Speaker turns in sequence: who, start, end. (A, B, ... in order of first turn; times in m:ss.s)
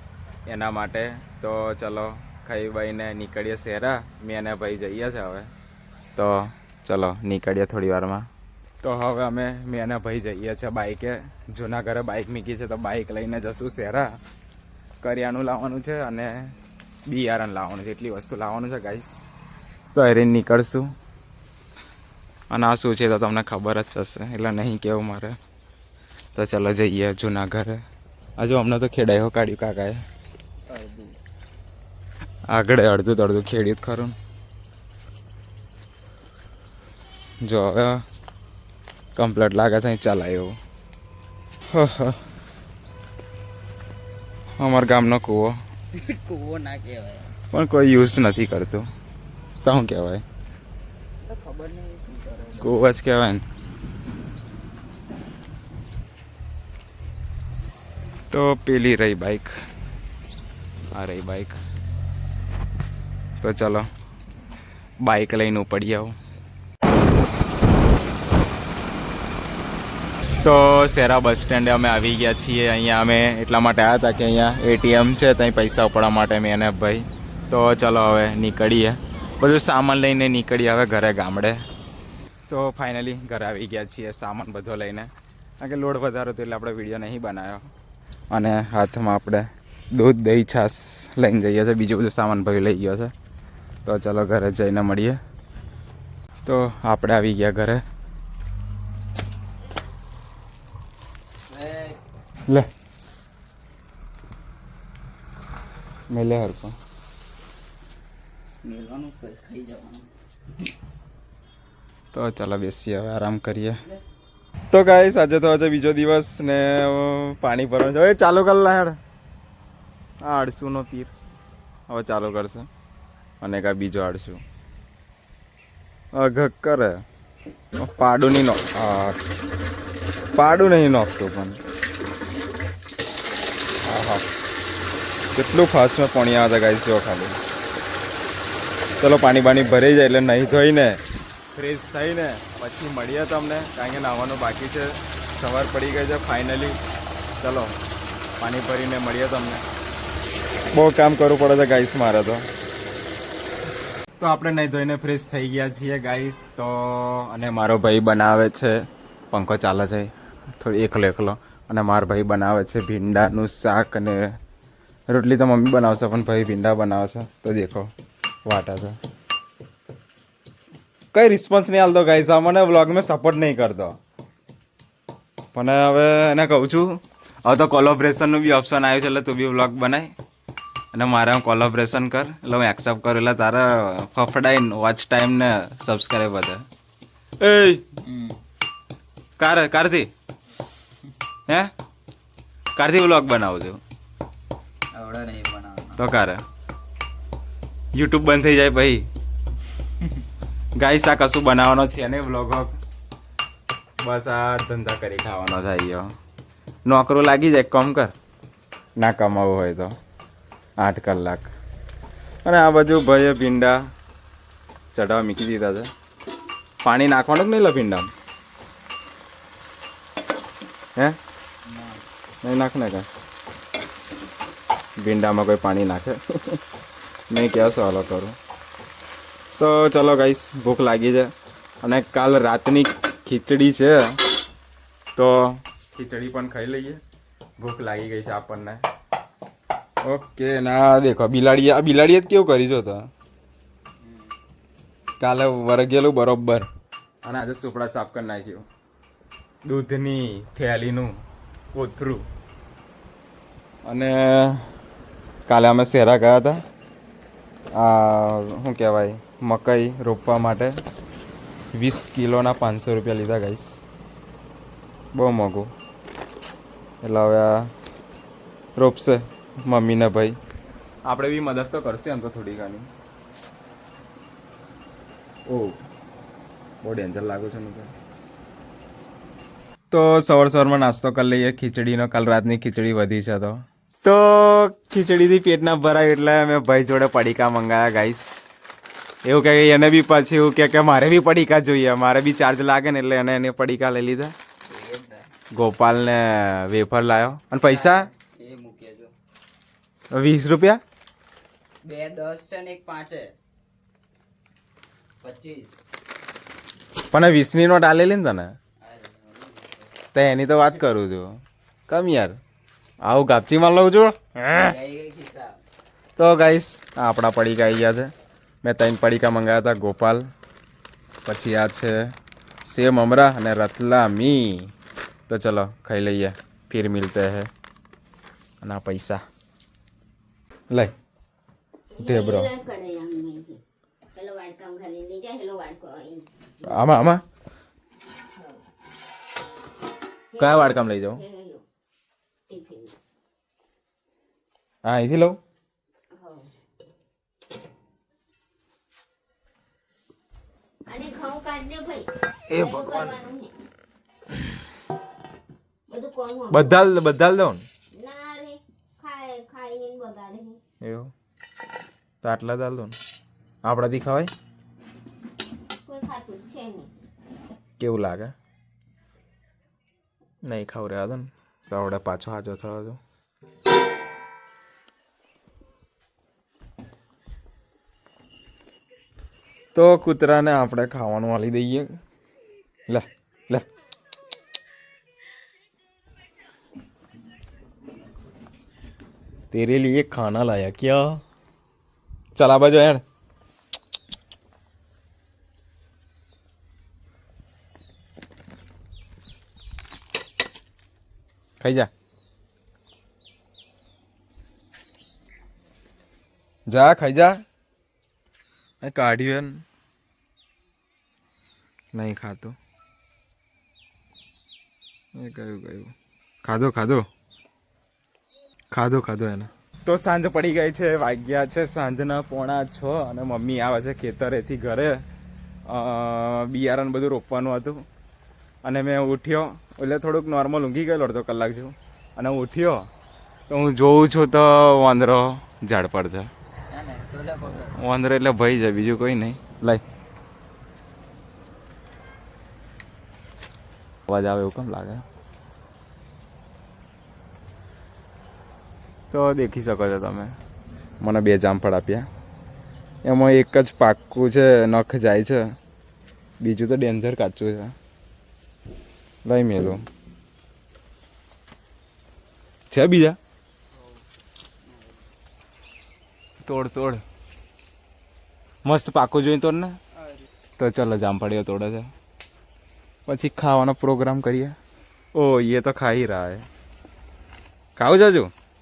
0:00.5-0:05.5 A
0:06.2-0:08.3 A
0:08.8-0:14.2 A
0:15.0-0:16.6 A
0:17.1-0:19.2 A
0:19.9-0:20.9 A
0:22.5-0:25.4 A
0:26.4-0:27.8 A
0:28.4-0:30.0 A
0:30.7-0:31.2 B
0:32.5-0:34.2 A
0:37.4-0:38.0 A
0:39.2-0:40.6 A
0:41.7-0:42.2 A
0:44.6-0:45.6 A
0:45.9-0:47.4 B
0:47.5-0:48.8 A
0:49.6-0:50.2 A
0:51.2-0:52.8 B
0:52.6-0:53.4 A
0:58.3-0:59.6 A
1:00.9-1:01.6 A
1:03.4-1:03.9 A
1:05.0-1:06.2 A
1:10.4-1:21.6 A
1:22.5-1:25.1 A
1:25.6-1:27.7 A
1:28.3-1:33.1 A
1:33.8-1:35.2 A
1:36.5-1:37.8 A
1:41.5-1:42.0 B
1:46.1-1:46.8 A
1:48.6-1:50.1 B
1:52.1-1:53.8 A
1:54.7-1:59.0 A
2:00.2-2:01.1 A
2:01.9-2:02.7 A
2:03.4-2:04.4 A
2:06.2-2:07.0 A
2:07.8-2:09.2 A
2:10.4-2:11.6 A
2:13.9-2:14.2 A
2:15.4-2:17.4 A
2:19.0-2:21.0 A
2:21.5-2:26.8 A
2:27.4-2:27.7 A
2:28.4-2:29.6 A
2:30.7-2:32.5 A
2:34.2-2:44.2 A
2:45.1-2:47.9 A
2:48.4-2:49.0 A
2:51.1-2:54.0 A
2:55.5-3:00.1 A
3:00.9-3:06.6 A
3:07.4-3:07.8 A
3:08.0-3:08.4 B
3:09.4-3:10.1 A
3:12.8-3:13.8 A
3:14.9-3:16.0 B
3:16.0-3:16.4 A
3:17.9-3:19.1 A
3:20.8-3:22.8 A
3:24.0-3:26.1 A
3:26.9-3:28.1 A
3:29.0-3:29.9 A
3:30.8-3:31.5 A
3:32.4-3:33.8 A
3:34.9-3:35.9 A
3:36.8-3:38.1 A
3:41.7-3:42.0 B
3:42.4-3:43.1 A
3:45.0-3:46.6 A
3:47.3-3:48.4 A
3:49.6-3:51.3 A
3:51.8-3:54.2 A
3:55.2-3:57.0 A
3:57.6-3:58.8 A
4:00.0-4:03.1 A
4:04.0-4:04.4 B
4:05.2-4:06.7 A
4:07.2-4:08.7 A
4:09.6-4:11.2 A
4:11.7-4:12.2 A
4:13.8-4:14.7 A
4:15.5-4:16.6 A
4:17.8-4:20.8 A
4:21.7-4:23.8 A
4:25.2-4:25.7 A
4:27.0-4:27.7 A
4:28.8-4:30.4 A
4:31.1-4:32.9 A
4:35.5-4:35.8 A
4:36.8-4:37.9 A
4:39.9-4:48.4 A
4:49.2-4:54.3 A
4:54.7-4:55.3 B
4:55.5-4:58.1 A
4:57.6-4:59.1 B
5:00.1-5:00.8 A
5:01.8-5:03.4 B
5:05.2-5:05.8 B
5:07.1-5:08.5 A
5:08.8-5:09.9 B
5:10.1-5:11.3 A
5:11.9-5:12.4 A
5:13.0-5:14.2 A
5:14.5-5:15.6 B
5:16.2-5:18.1 A
5:18.6-5:20.3 A
5:21.3-5:22.0 A
5:22.6-5:24.7 A
5:25.3-5:27.5 A
5:28.6-5:29.2 A
5:31.9-5:33.6 C
5:32.0-5:32.5 A
5:34.2-5:36.9 C
5:36.6-5:37.2 A
5:38.4-5:38.6 C
5:40.3-5:41.6 C
5:40.4-5:41.2 A
5:42.5-5:43.0 C
5:44.8-5:45.4 A
5:46.1-5:46.5 C
5:50.9-5:53.5 C
5:52.5-5:53.2 A
5:55.9-5:56.8 C
5:56.5-5:57.6 A
5:57.9-6:00.6 C
6:00.8-6:01.1 A
6:02.2-6:03.0 A
6:03.6-6:04.3 A
6:05.9-6:06.9 C
6:07.8-6:08.3 A
6:10.4-6:13.0 A
6:19.8-6:21.9 A
6:22.9-6:23.7 A
6:29.5-6:31.2 A
6:32.4-6:33.0 A
6:41.6-6:41.9 A
6:46.7-6:47.4 A
6:48.8-6:49.6 A
6:51.9-6:52.6 A
6:55.2-6:55.9 A
6:56.4-6:57.1 A
6:58.7-7:05.0 A
7:05.7-7:07.8 A
7:08.6-7:12.9 A
7:13.5-7:16.3 A
7:16.7-7:17.8 B
7:17.7-7:19.8 A
7:24.1-7:25.0 A
7:29.1-7:30.3 A
7:31.0-7:32.1 A
7:33.0-7:35.5 A
7:36.4-7:37.8 A
7:39.2-7:39.8 A
7:42.7-7:43.2 A
7:44.6-7:45.0 B
7:46.4-7:47.0 A
7:48.6-7:49.8 A
7:50.6-7:51.9 A
7:53.1-7:54.6 A
7:55.2-7:56.5 A
7:57.8-7:58.3 A